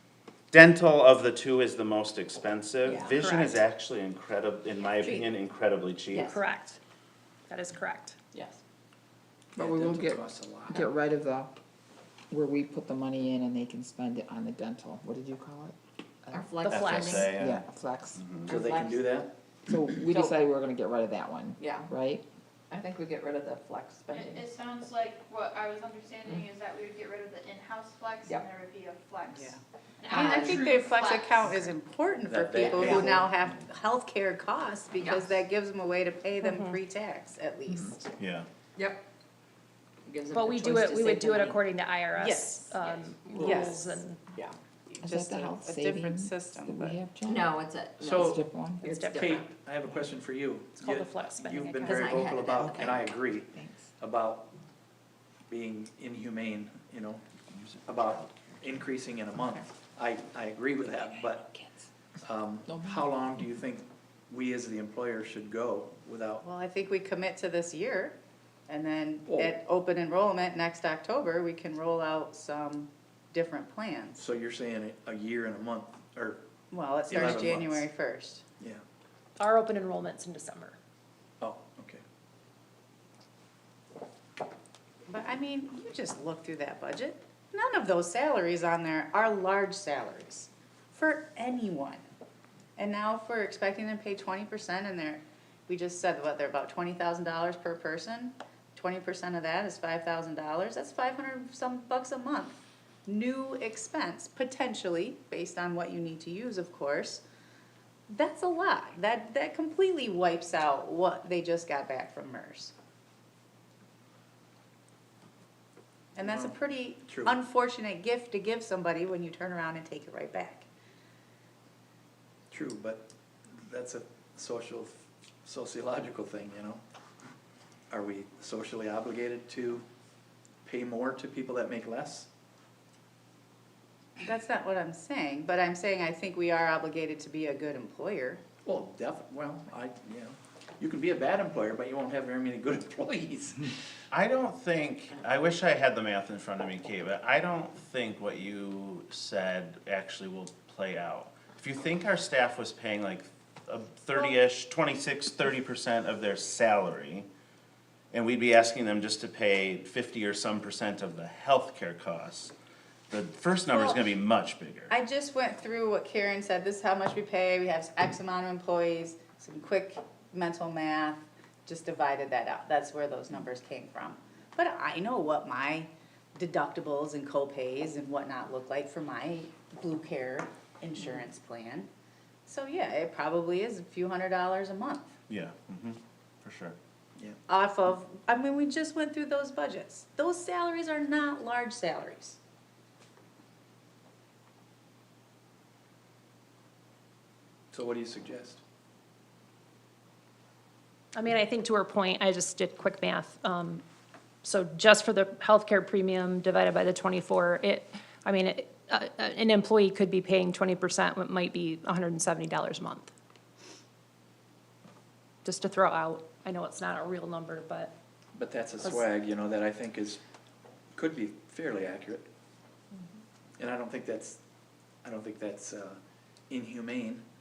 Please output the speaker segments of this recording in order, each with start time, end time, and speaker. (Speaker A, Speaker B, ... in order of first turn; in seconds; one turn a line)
Speaker A: 0.5-6.3
Speaker B: 3.2-3.6
Speaker C: 5.0-5.3
Speaker B: 6.2-6.8
Speaker B: 7.5-8.2
Speaker D: 9.6-10.9
Speaker E: 9.6-11.5
Speaker E: 12.3-18.3
Speaker C: 16.3-17.3
Speaker B: 16.6-17.3
Speaker A: 16.7-17.6
Speaker A: 18.1-18.6
Speaker D: 18.4-19.3
Speaker C: 18.6-19.0
Speaker E: 19.6-22.2
Speaker C: 20.1-20.3
Speaker C: 21.6-21.9
Speaker C: 22.7-24.5
Speaker F: 24.1-31.7
Speaker G: 29.3-38.1
Speaker C: 30.1-30.6
Speaker D: 32.3-33.3
Speaker C: 32.6-33.0
Speaker C: 35.0-35.3
Speaker B: 36.4-36.8
Speaker A: 38.2-38.5
Speaker C: 38.8-39.0
Speaker C: 40.0-41.6
Speaker B: 40.3-44.2
Speaker G: 42.1-42.7
Speaker C: 42.8-43.6
Speaker G: 43.3-44.0
Speaker G: 44.9-47.0
Speaker E: 45.0-47.5
Speaker C: 47.2-49.4
Speaker D: 48.0-48.5
Speaker E: 48.1-48.8
Speaker B: 48.8-49.5
Speaker D: 49.0-54.5
Speaker B: 50.8-52.1
Speaker C: 51.8-53.0
Speaker E: 52.5-53.9
Speaker D: 55.5-57.2
Speaker A: 57.5-58.4
Speaker D: 57.9-61.5
Speaker E: 60.9-61.9
Speaker D: 62.2-66.4
Speaker E: 62.6-63.1
Speaker G: 66.4-68.2
Speaker G: 68.7-74.2
Speaker D: 69.3-69.5
Speaker D: 74.2-76.4
Speaker G: 76.7-78.4
Speaker D: 77.1-77.9
Speaker B: 79.4-80.8
Speaker D: 81.4-82.0
Speaker G: 85.1-92.0
Speaker G: 92.8-107.2
Speaker G: 108.1-112.7
Speaker G: 116.1-120.7
Speaker D: 116.2-117.4
Speaker D: 122.5-126.8
Speaker D: 127.9-129.8
Speaker D: 130.6-132.3
Speaker G: 134.2-138.4
Speaker D: 138.6-143.7
Speaker A: 144.1-157.3
Speaker A: 158.1-162.5
Speaker A: 163.1-164.9
Speaker G: 163.7-164.0
Speaker G: 164.9-181.9
Speaker G: 182.4-185.1
Speaker A: 185.3-186.8
Speaker G: 187.5-192.4
Speaker D: 197.7-198.6
Speaker B: 201.1-203.8
Speaker B: 204.4-213.1
Speaker B: 215.4-217.9
Speaker D: 218.3-220.2
Speaker D: 220.9-222.3
Speaker D: 223.6-224.4
Speaker D: 225.0-226.0
Speaker D: 226.5-227.2